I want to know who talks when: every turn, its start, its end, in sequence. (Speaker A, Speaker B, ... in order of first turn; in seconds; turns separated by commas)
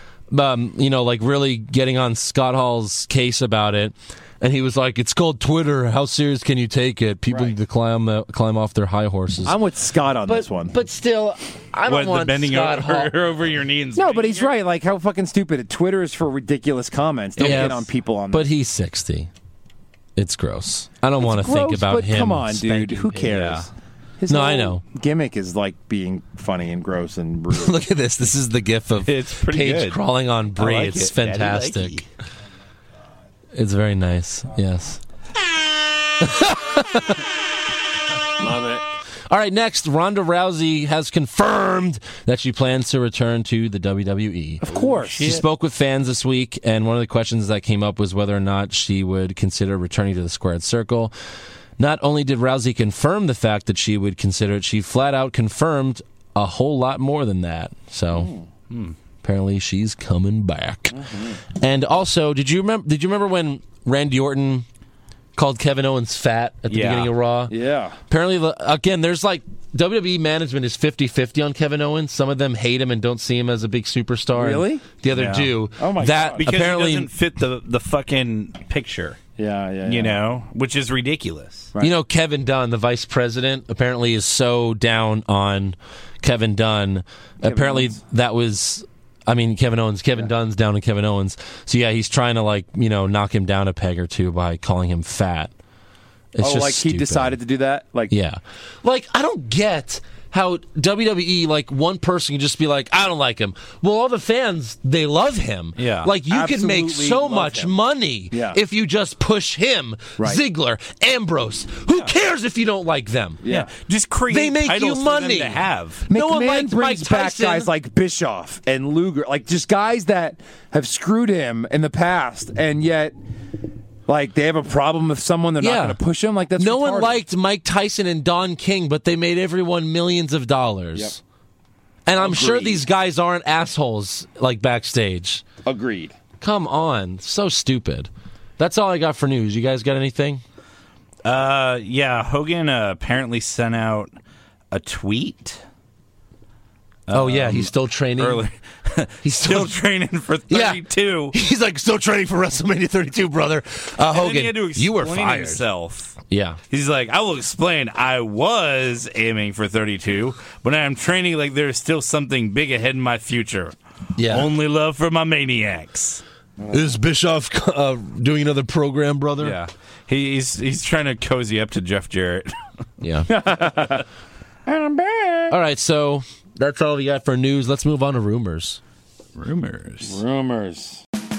Speaker A: 0.3-9.6, Speaker B: 7.3-7.5, Speaker B: 9.4-10.7, Speaker A: 10.3-13.1, Speaker C: 11.8-14.5, Speaker B: 13.9-18.5, Speaker A: 17.4-19.3, Speaker C: 17.4-17.7, Speaker A: 20.1-23.3, Speaker B: 21.2-27.8, Speaker C: 23.2-23.7, Speaker A: 24.3-24.8, Speaker A: 27.5-32.0, Speaker C: 29.0-30.0, Speaker C: 30.6-32.0, Speaker A: 33.5-35.0, Speaker A: 36.2-37.2, Speaker B: 38.4-38.8, Speaker A: 39.3-44.6, Speaker B: 44.6-45.4, Speaker C: 44.7-45.4, Speaker A: 45.2-51.1, Speaker A: 51.8-58.3, Speaker B: 58.1-58.5, Speaker C: 58.7-59.0, Speaker A: 59.2-64.6, Speaker B: 60.9-61.4, Speaker A: 65.3-67.5, Speaker C: 66.7-67.1, Speaker B: 67.5-68.0, Speaker A: 68.1-77.1, Speaker B: 74.3-74.8, Speaker C: 75.1-75.5, Speaker B: 75.8-76.5, Speaker C: 76.4-79.2, Speaker B: 79.4-80.2, Speaker C: 79.8-81.7, Speaker A: 81.8-95.5, Speaker B: 87.4-88.0, Speaker A: 96.3-97.4, Speaker B: 96.4-98.1, Speaker A: 98.1-113.4, Speaker C: 105.8-106.1, Speaker B: 106.3-107.7, Speaker B: 108.3-108.6, Speaker B: 113.4-113.7, Speaker C: 113.5-116.0, Speaker A: 114.3-117.7, Speaker B: 116.1-123.1, Speaker B: 124.1-127.2, Speaker A: 125.6-126.0, Speaker A: 126.6-131.2, Speaker A: 132.1-135.4, Speaker B: 132.2-132.8, Speaker B: 135.6-136.1, Speaker A: 136.4-140.4, Speaker C: 141.2-144.1, Speaker C: 144.7-145.6, Speaker C: 147.1-151.3, Speaker A: 147.1-148.5, Speaker A: 149.2-149.8, Speaker A: 150.5-155.6, Speaker C: 154.0-156.2, Speaker A: 156.3-156.6, Speaker C: 156.7-166.2, Speaker A: 164.2-164.5, Speaker B: 166.6-166.9, Speaker A: 166.7-169.6, Speaker C: 169.4-172.5, Speaker A: 173.0-173.3, Speaker B: 173.3-174.0, Speaker B: 174.7-175.6, Speaker A: 175.5-178.8, Speaker C: 179.3-180.2, Speaker B: 180.0-181.0